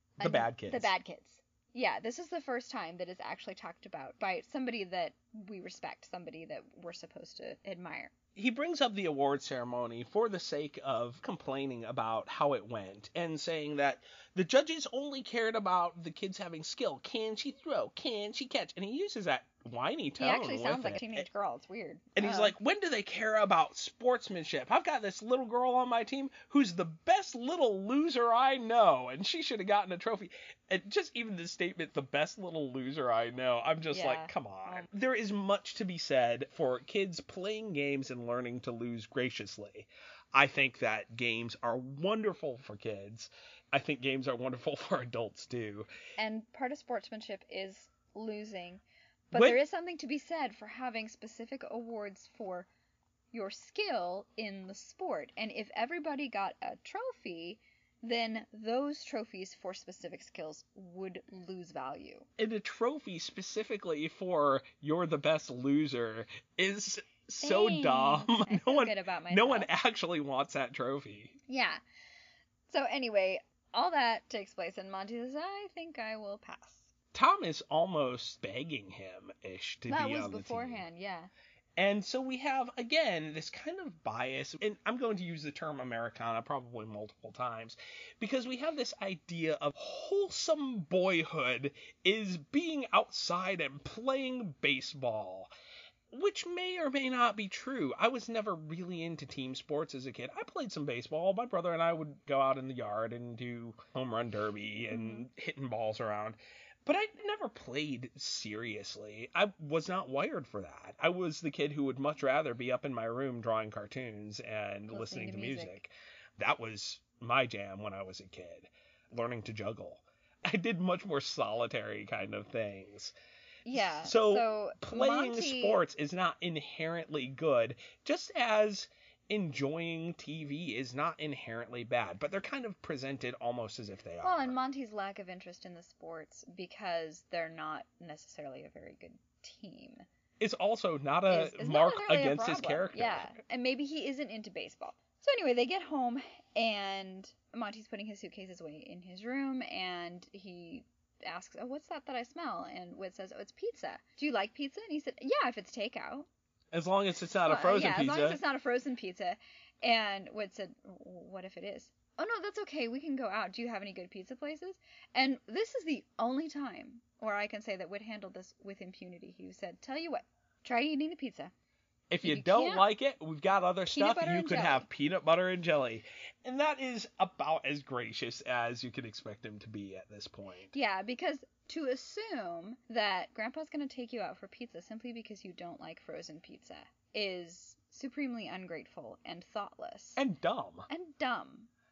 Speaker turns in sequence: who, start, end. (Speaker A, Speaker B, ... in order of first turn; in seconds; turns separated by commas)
Speaker A: 0.2-8.1, Speaker B: 0.2-0.9, Speaker B: 8.3-21.2, Speaker A: 20.2-22.5, Speaker B: 22.1-45.9, Speaker A: 33.9-34.9, Speaker A: 46.2-52.7, Speaker B: 49.3-49.6, Speaker A: 53.3-62.3, Speaker B: 62.4-71.3, Speaker A: 67.4-69.7, Speaker A: 71.5-71.8, Speaker A: 72.7-76.9, Speaker B: 77.1-80.8, Speaker A: 79.9-81.3, Speaker B: 81.8-95.5, Speaker B: 96.1-123.1, Speaker A: 104.9-105.2, Speaker A: 114.9-115.8, Speaker A: 123.6-125.8, Speaker B: 123.7-134.5, Speaker A: 134.2-140.1, Speaker B: 140.4-143.3, Speaker A: 141.3-156.3, Speaker B: 156.7-158.4, Speaker A: 157.4-171.5, Speaker B: 172.1-180.7, Speaker A: 172.2-172.9, Speaker A: 173.9-174.9, Speaker A: 180.7-190.2, Speaker B: 190.2-190.9, Speaker A: 190.9-191.7